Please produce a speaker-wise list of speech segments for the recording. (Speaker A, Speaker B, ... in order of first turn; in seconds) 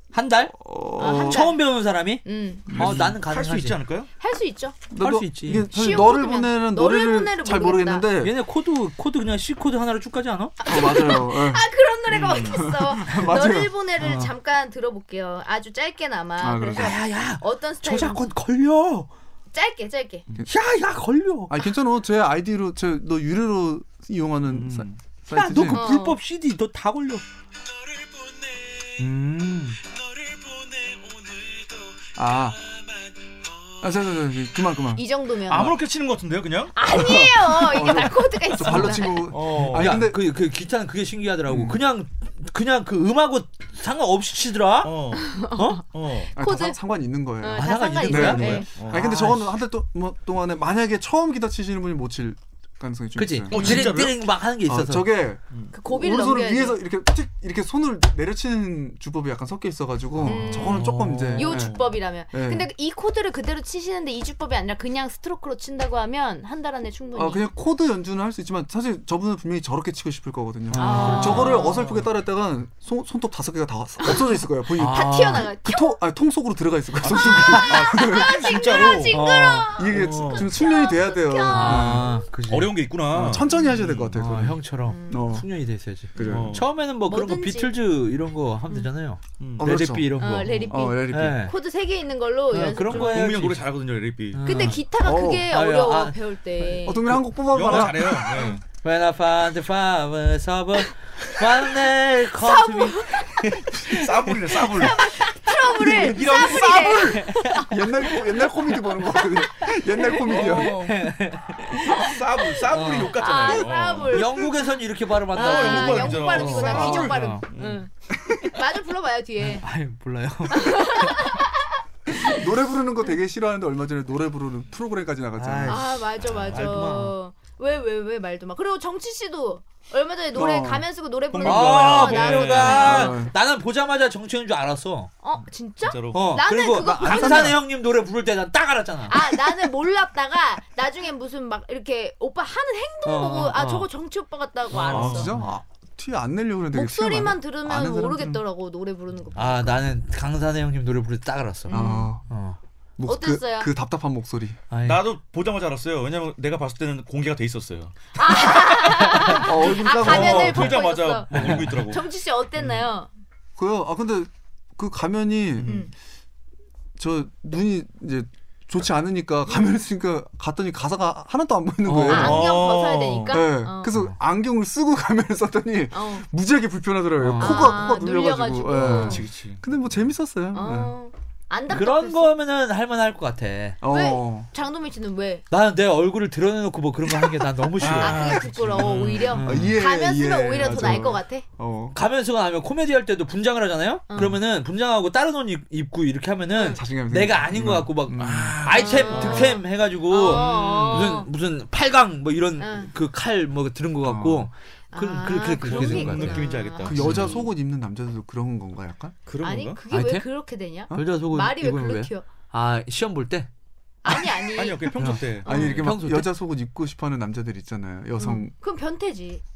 Speaker A: 0.1-3.8, 5.0-5.7, 8.2-10.6, 14.0-14.3, 16.7-19.1, 20.5-21.6, 25.3-27.2, 29.0-29.8, 39.5-45.8, 47.5-49.5, 53.1-55.2, 60.2-61.7, 70.7-71.8, 74.8-75.5, 79.1-79.7, 81.5-82.7, 84.1-91.5, 92.5-93.6, 94.3-94.8, 95.5-96.2, 98.7-104.1, 107.2-107.6, 110.0-112.0, 112.7-117.4, 119.4-121.4, 125.4-127.1, 131.4-135.1, 136.1-139.5, 143.1-143.9, 144.7-145.5, 149.3-152.6, 154.7-155.1, 160.0-160.8, 161.3-161.9, 171.8-172.4, 177.2-177.8, 181.7-183.8, 185.5-188.4, 189.2-189.8, 191.9-207.4, 209.9-210.2, 210.9-213.5, 215.0-216.3
Speaker B: 0.5-1.5, 2.7-3.2, 4.9-8.3, 10.7-11.6, 12.6-13.7, 16.4-16.9, 21.5-25.9, 32.1-32.6, 33.8-35.0, 36.9-40.2, 41.5-41.8, 46.4-53.9, 54.6-61.8, 62.3-62.7, 67.1-78.9, 79.7-82.1, 83.1-85.5, 86.1-86.6, 89.6-91.5, 95.0-95.5, 96.8-98.3, 106.0-110.8, 122.2-125.9, 130.3-130.9, 132.8-133.3, 136.6-137.6, 144.9-148.4, 151.7-152.2, 153.0-154.6, 159.2-160.8, 163.6-165.9, 167.0-172.5, 173.3-180.9, 183.8-184.5, 189.4-192.0, 196.6-198.8, 204.0-204.5, 206.8-209.1, 215.4-218.5
Speaker C: 1.0-1.6, 2.2-2.8, 4.2-4.8, 5.5-8.1, 10.6-18.2, 19.5-20.2, 25.7-26.2, 34.9-35.8, 36.7-39.3, 45.2-46.8, 47.4-48.7, 53.5-53.9, 55.7-56.8, 60.2-67.4, 70.8-71.9, 74.0-74.3, 74.9-76.0, 77.1-82.2, 84.9-85.3, 87.0-87.7, 90.2-93.4, 94.4-97.2, 98.3-98.6, 102.4-103.5, 104.6-108.2, 111.9-114.5, 115.3-119.6, 120.5-122.4, 125.7-133.2, 135.2-137.6, 139.1-145.3, 146.7-149.8, 151.7-152.1, 153.1-153.7, 158.2-163.1, 165.6-165.9, 172.1-173.9, 175.9-176.2, 177.4-179.2, 180.5-182.3, 183.9-185.4, 187.9-191.4, 194.1-194.4, 196.5-196.8, 198.7-201.3, 202.6-202.9, 204.9-207.0, 209.4-212.2, 214.0-215.8, 218.2-219.4
Speaker D: 2.8-4.1, 12.1-12.7, 24.5-25.0, 35.5-36.8, 39.3-40.1, 44.8-46.3, 48.8-49.1, 53.5-54.3, 77.0-79.2, 79.9-80.5, 82.5-84.1, 86.2-86.6, 89.4-89.7, 92.9-94.4, 97.5-98.6, 103.7-105.0, 105.6-107.1, 110.3-111.1, 111.8-114.5, 115.3-117.8, 131.3-133.1, 135.8-136.4, 144.9-145.3, 154.8-162.1, 165.6-165.9, 172.1-173.4, 178.8-180.0, 187.8-189.7, 198.6-199.6, 200.2-201.1, 205.6-207.4, 209.3-209.8, 214.4-215.9